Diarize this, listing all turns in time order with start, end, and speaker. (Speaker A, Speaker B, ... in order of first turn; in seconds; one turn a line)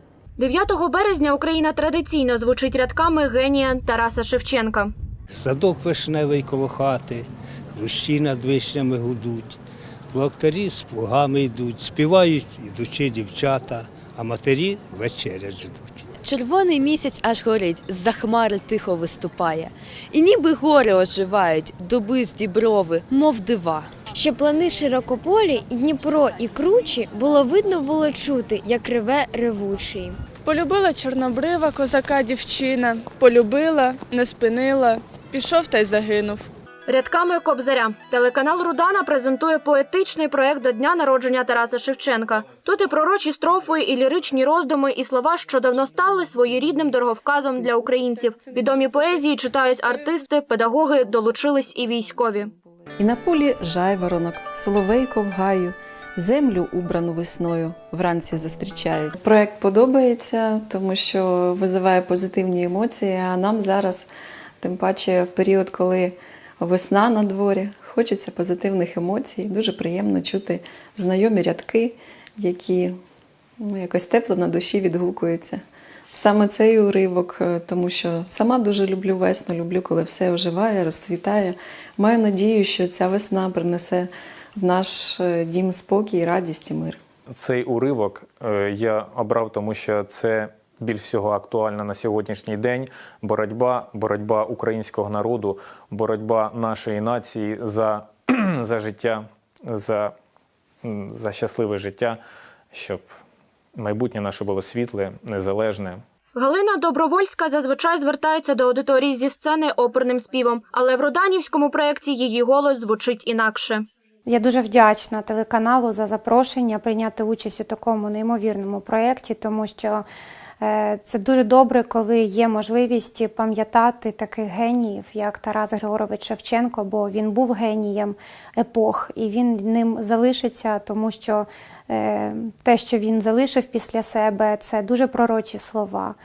Speaker A: 0.4-4.9
Speaker B: 5.3-9.6
Speaker B: 10.1-16.1
Speaker C: 16.2-24.0
Speaker D: 24.1-30.2
Speaker E: 30.4-36.5
Speaker A: 36.9-52.5
Speaker F: 53.0-64.1
Speaker F: 64.6-73.0
Speaker F: 73.6-75.6
Speaker F: 76.1-87.0
Speaker G: 87.4-100.1
Speaker G: 100.8-102.2
Speaker G: 102.7-103.1
Speaker G: 103.8-106.0
Speaker A: 106.3-113.8
Speaker H: 114.3-120.0
Speaker H: 120.6-136.2